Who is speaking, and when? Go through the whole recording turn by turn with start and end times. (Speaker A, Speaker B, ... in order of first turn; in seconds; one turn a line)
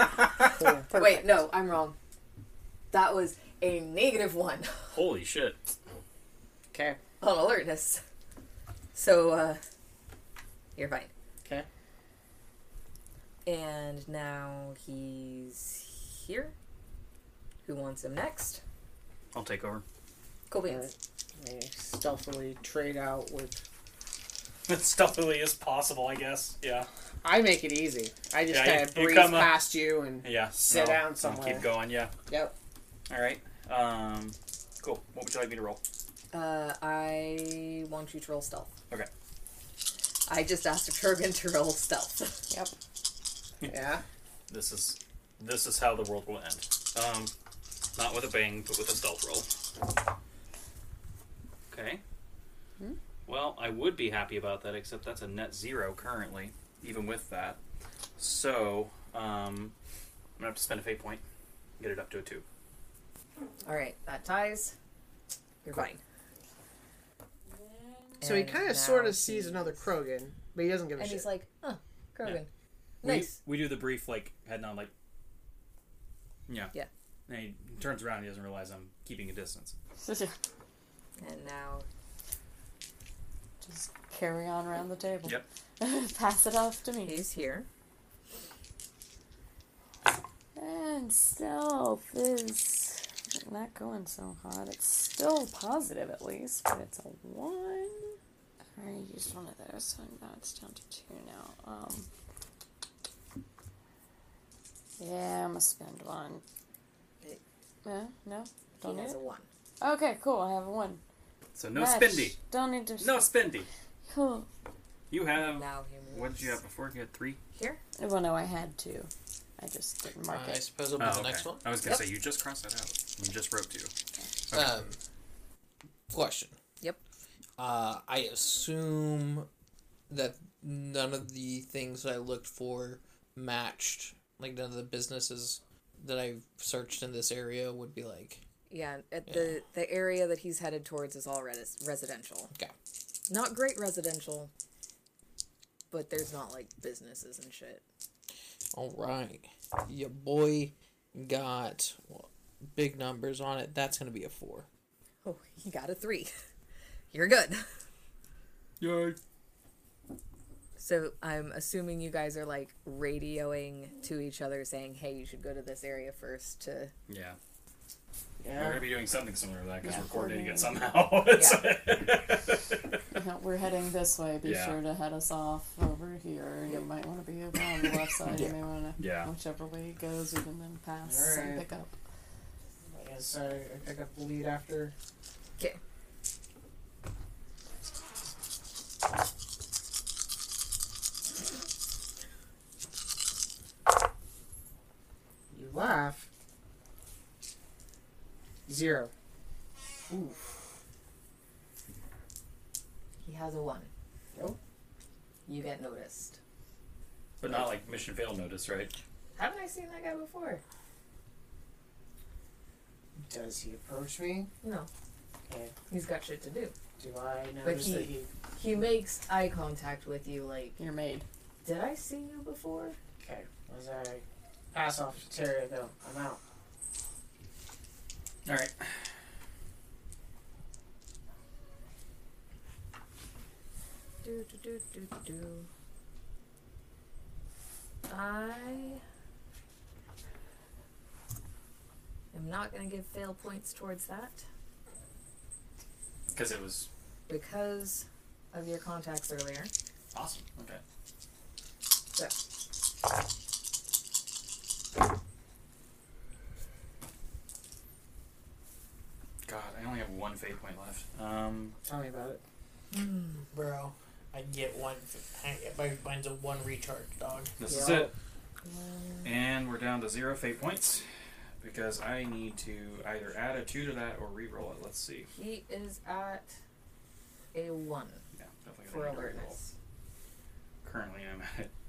Speaker A: 0.4-1.9
Speaker B: 0.5-1.0
Speaker A: 2.9-4.9
Speaker C: 4.9-5.6
Speaker B: 6.7-7.0
Speaker A: 7.2-8.0
Speaker A: 8.9-9.6
Speaker A: 10.8-11.1
Speaker A: 13.4-16.5
Speaker A: 17.6-18.6
Speaker C: 19.3-19.8
Speaker A: 20.5-20.9
Speaker B: 20.6-23.6
Speaker C: 24.7-26.9
Speaker B: 27.2-31.7
Speaker C: 28.5-29.6
Speaker C: 30.2-32.1
Speaker B: 32.3-32.5
Speaker C: 33.1-35.8
Speaker A: 36.3-38.7
Speaker A: 40.3-42.4
Speaker B: 43.6-44.0
Speaker C: 44.5-47.3
Speaker C: 48.0-49.5
Speaker C: 51.7-52.0
Speaker C: 53.2-57.6
Speaker C: 58.2-59.7
Speaker C: 60.4-61.2
Speaker C: 61.8-62.4
Speaker A: 63.6-64.7
Speaker A: 65.6-66.0
Speaker D: 67.5-68.2
Speaker A: 68.2-69.8
Speaker B: 68.2-71.3
Speaker A: 71.0-72.5
Speaker A: 73.0-73.3
Speaker C: 73.0-74.9
Speaker C: 76.5-76.7
Speaker C: 77.3-79.7
Speaker D: 80.0-80.3
Speaker A: 81.2-81.8
Speaker D: 83.6-87.3
Speaker A: 87.0-87.7
Speaker D: 90.5-98.2
Speaker D: 98.8-102.1
Speaker D: 105.0-106.4
Speaker D: 107.8-109.2
Speaker A: 108.8-109.5
Speaker D: 109.8-111.0
Speaker C: 111.5-112.4
Speaker D: 111.7-113.3
Speaker C: 113.0-113.7
Speaker D: 114.1-114.5
Speaker C: 115.1-117.4
Speaker A: 115.3-116.5
Speaker A: 117.5-117.8
Speaker D: 118.0-120.6
Speaker E: 120.2-121.7
Speaker C: 121.0-123.9
Speaker C: 124.5-124.8
Speaker E: 124.5-125.0
Speaker E: 126.1-126.5
Speaker E: 127.6-129.5
Speaker E: 130.1-138.4
Speaker A: 138.7-142.5
Speaker E: 139.3-139.5
Speaker A: 143.3-144.5
Speaker A: 145.9-147.8
Speaker E: 148.7-154.7
Speaker A: 155.2-156.3
Speaker A: 157.1-157.7
Speaker C: 158.8-159.2
Speaker A: 160.8-166.9
Speaker C: 167.1-167.4
Speaker B: 168.4-168.9
Speaker C: 168.5-172.8
Speaker D: 169.8-170.7
Speaker A: 171.3-171.7
Speaker D: 173.1-181.9
Speaker C: 174.4-174.8
Speaker E: 178.3-178.5
Speaker C: 179.0-179.3
Speaker B: 181.0-181.6
Speaker B: 182.9-184.9
Speaker B: 195.5-196.3
Speaker B: 198.7-199.1
Speaker B: 200.1-200.6
Speaker A: 203.2-203.9
Speaker A: 205.5-206.4
Speaker C: 207.4-208.9
Speaker A: 209.3-210.6
Speaker B: 213.2-214.5
Speaker A: 214.6-214.9
Speaker B: 215.5-215.7
Speaker A: 215.9-216.7
Speaker B: 217.0-218.3
Speaker A: 217.6-220.8
Speaker D: 220.8-221.2
Speaker A: 221.6-223.0
Speaker B: 223.2-226.4
Speaker C: 228.4-228.9
Speaker A: 234.2-235.7
Speaker A: 238.1-239.0
Speaker A: 242.3-244.4
Speaker C: 246.3-246.9
Speaker A: 247.3-249.7
Speaker C: 250.1-250.8
Speaker C: 259.4-261.7
Speaker B: 261.8-262.4
Speaker A: 262.9-263.2
Speaker E: 263.5-267.5
Speaker C: 267.6-268.1
Speaker B: 267.7-268.1
Speaker A: 268.6-269.3
Speaker C: 269.2-271.0
Speaker C: 271.6-275.3
Speaker A: 275.3-276.5
Speaker A: 277.5-278.2
Speaker C: 278.4-279.6
Speaker A: 278.9-279.7
Speaker C: 280.8-281.7